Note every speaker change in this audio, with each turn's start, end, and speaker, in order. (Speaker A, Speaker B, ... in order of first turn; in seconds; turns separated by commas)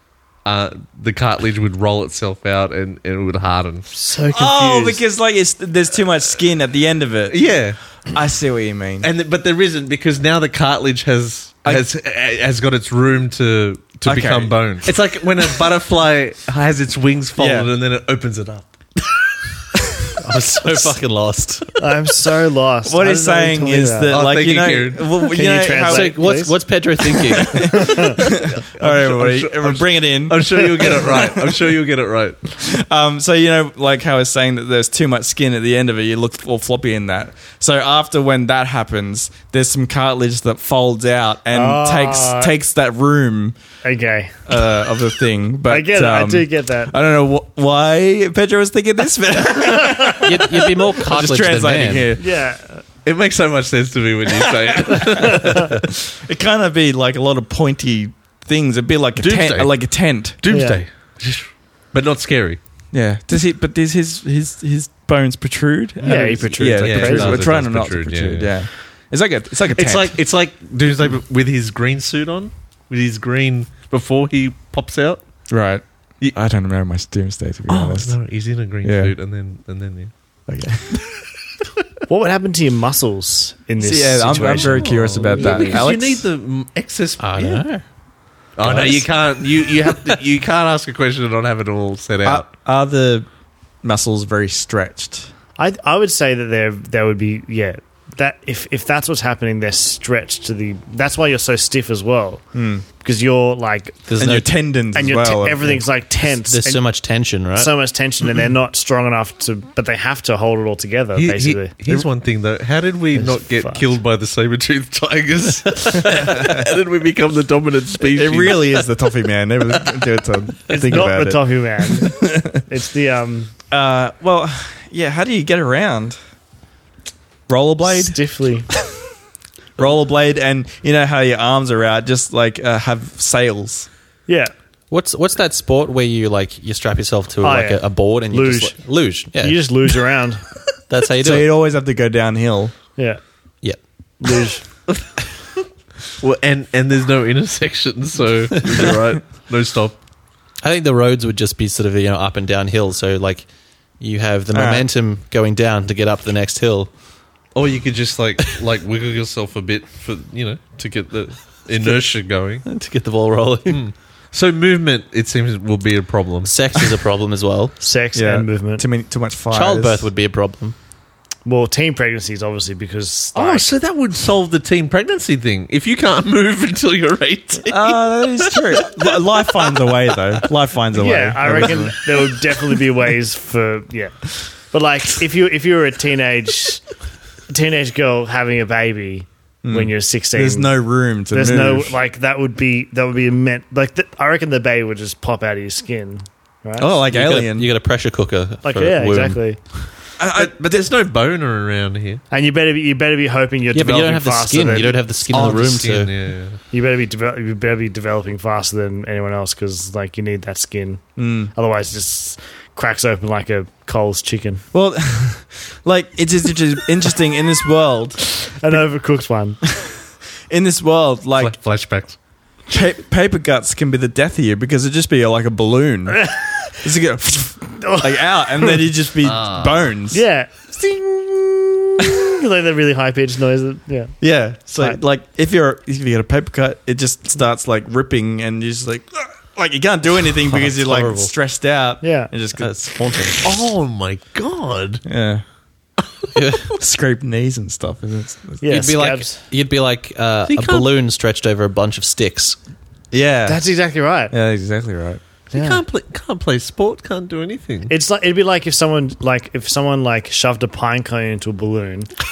Speaker A: 0.5-3.9, Speaker B: 3.9-5.0, Speaker C: 4.3-7.4, Speaker A: 7.3-7.8, Speaker C: 8.1-9.1, Speaker A: 9.0-19.3, Speaker C: 14.1-14.6, Speaker C: 17.4-17.7, Speaker D: 20.2-21.8, Speaker B: 21.8-24.1, Speaker C: 22.9-26.2, Speaker A: 24.1-25.1, Speaker B: 25.2-26.6, Speaker D: 25.9-28.0, Speaker C: 27.4-31.7, Speaker B: 27.6-28.2, Speaker A: 28.8-32.4, Speaker C: 32.5-43.6, Speaker B: 41.5-42.5, Speaker B: 43.8-44.5, Speaker C: 44.5-52.2, Speaker B: 45.7-46.9, Speaker D: 50.2-52.1, Speaker B: 52.2-52.8, Speaker A: 53.0-55.9, Speaker C: 54.9-60.4, Speaker A: 59.2-59.8, Speaker A: 60.4-62.6, Speaker B: 60.5-60.8, Speaker C: 62.9-70.1, Speaker B: 66.0-67.4, Speaker A: 66.8-68.5, Speaker D: 69.8-70.3, Speaker A: 69.8-75.2, Speaker C: 75.5-78.2, Speaker A: 77.7-80.1, Speaker C: 78.8-79.1, Speaker C: 80.5-81.0, Speaker B: 82.1-85.8, Speaker C: 83.8-86.3, Speaker A: 84.4-87.7, Speaker D: 87.2-87.8, Speaker A: 88.6-92.5, Speaker B: 88.7-89.0, Speaker C: 92.2-93.3, Speaker C: 93.8-95.3, Speaker B: 95.6-102.4, Speaker C: 102.5-102.8, Speaker B: 103.0-104.0, Speaker D: 104.1-104.5, Speaker C: 104.2-105.8, Speaker B: 104.9-106.9, Speaker D: 106.5-107.7, Speaker B: 107.5-111.7, Speaker A: 111.2-118.9, Speaker B: 113.2-113.9, Speaker C: 116.0-116.7, Speaker C: 118.1-122.7, Speaker B: 120.7-123.5, Speaker C: 123.7-126.2, Speaker C: 127.5-128.2, Speaker B: 127.9-128.7, Speaker C: 129.8-133.9, Speaker B: 134.3-134.5, Speaker D: 134.9-139.7, Speaker B: 137.4-140.4, Speaker D: 140.9-141.5, Speaker C: 141.2-142.7, Speaker B: 144.2-144.6, Speaker A: 146.2-150.0, Speaker D: 150.6-153.5, Speaker D: 154.0-156.9, Speaker C: 154.5-154.8, Speaker A: 157.5-162.7, Speaker D: 162.7-163.8, Speaker A: 163.7-166.9, Speaker D: 166.4-167.8, Speaker B: 167.8-168.8, Speaker C: 168.1-170.1, Speaker D: 169.5-170.8, Speaker B: 171.4-173.7, Speaker A: 173.3-180.2, Speaker C: 177.7-182.0, Speaker B: 180.9-186.8, Speaker B: 187.5-190.8, Speaker C: 189.6-191.9, Speaker B: 191.3-196.9, Speaker C: 196.8-197.7, Speaker D: 197.1-199.4, Speaker B: 198.6-199.6, Speaker C: 200.2-200.8, Speaker A: 200.3-202.2, Speaker B: 202.3-205.6, Speaker D: 203.7-206.1, Speaker A: 205.3-206.6, Speaker B: 206.7-214.6, Speaker C: 211.2-211.5, Speaker C: 214.7-218.8, Speaker B: 218.5-219.6, Speaker C: 219.7-220.0, Speaker C: 220.5-221.6, Speaker A: 221.4-222.2, Speaker C: 222.7-230.2, Speaker B: 226.1-226.7, Speaker B: 227.8-228.8, Speaker A: 229.2-229.9, Speaker B: 230.1-234.2, Speaker C: 234.2-243.5, Speaker D: 240.5-241.3, Speaker B: 242.0-242.3, Speaker D: 242.6-243.5, Speaker A: 243.4-245.0, Speaker C: 245.1-245.4, Speaker D: 246.3-246.7, Speaker C: 246.7-248.6, Speaker B: 248.6-249.4, Speaker D: 248.6-252.6, Speaker A: 250.5-250.9, Speaker C: 253.1-253.6, Speaker B: 253.5-254.3, Speaker C: 254.3-255.2, Speaker B: 255.5-255.8, Speaker A: 255.5-257.9, Speaker B: 257.9-262.1